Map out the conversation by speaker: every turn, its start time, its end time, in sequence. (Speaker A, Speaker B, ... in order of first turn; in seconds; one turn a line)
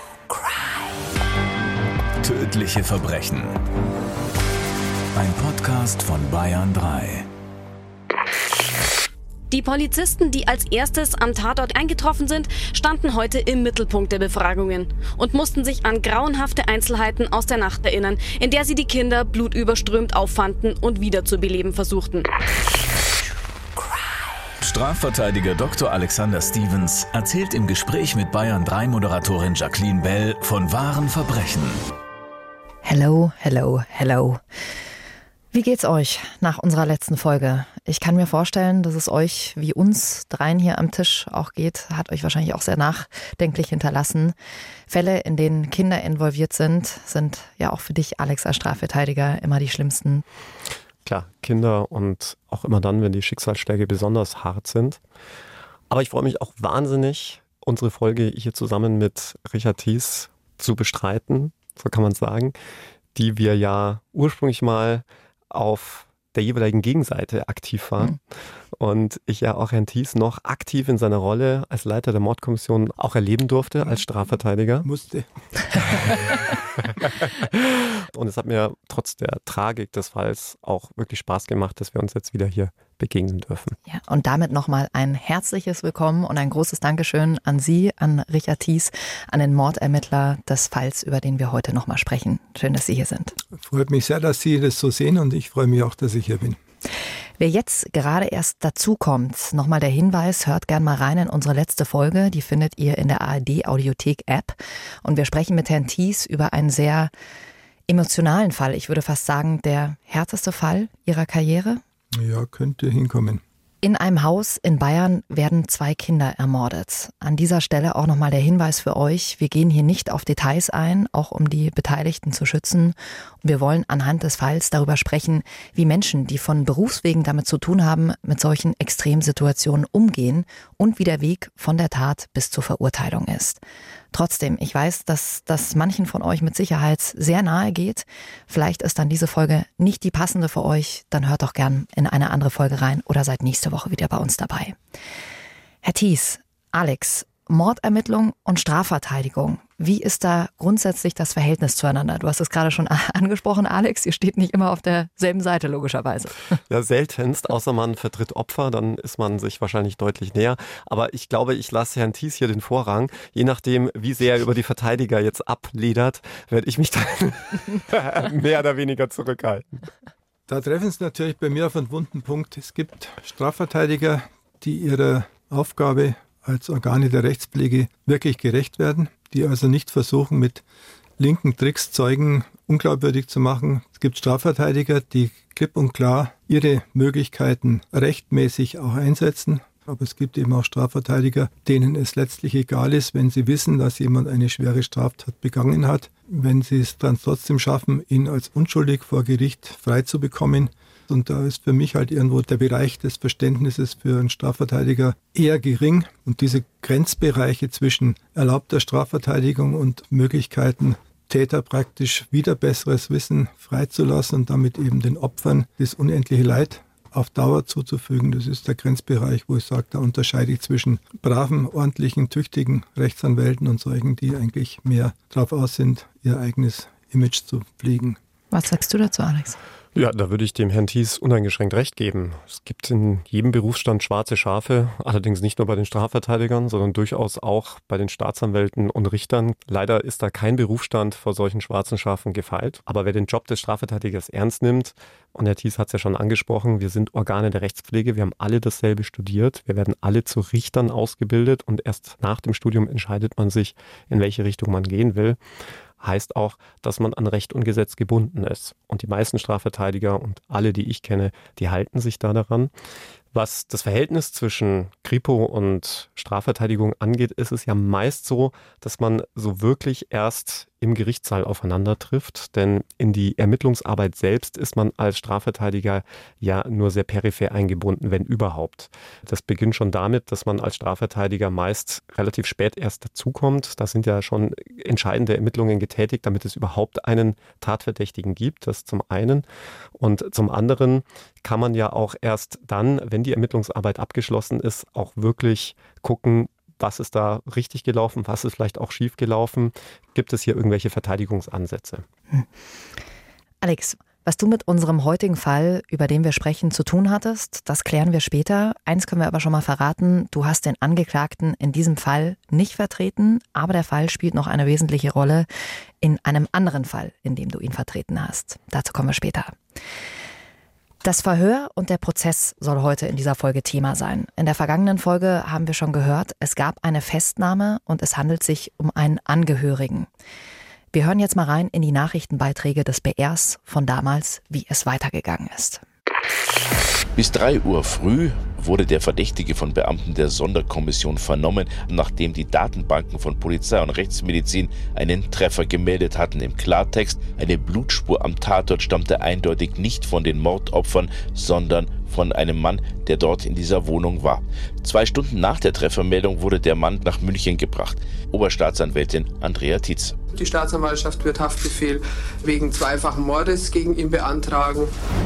Speaker A: 2.2-3.6
Speaker A: 5.1-7.3
Speaker B: 9.5-22.3
Speaker A: 24.6-31.8
Speaker C: 32.8-34.4
Speaker C: 35.5-44.3
Speaker C: 44.9-50.2
Speaker D: 51.0-55.0
Speaker D: 55.9-62.5
Speaker D: 63.1-68.2
Speaker D: 68.7-74.9
Speaker E: 74.8-76.1
Speaker D: 77.2-83.8
Speaker C: 83.9-93.3
Speaker E: 93.6-96.6
Speaker C: 97.4-107.1
Speaker C: 107.9-111.8
Speaker E: 112.1-113.4
Speaker C: 113.8-133.6
Speaker C: 134.1-144.8
Speaker C: 145.8-156.3
Speaker D: 156.7-169.8
Speaker E: 170.5-180.6
Speaker E: 181.2-228.2
Speaker C: 228.5-229.6
Speaker D: 229.9-255.4
Speaker D: 256.0-262.7
Speaker D: 263.3-289.4
Speaker D: 289.9-302.0
Speaker C: 303.6-315.5
Speaker C: 316.0-319.6
Speaker C: 321.0-330.1
Speaker C: 330.9-335.8
Speaker F: 337.1-360.1
Speaker G: 360.3-364.9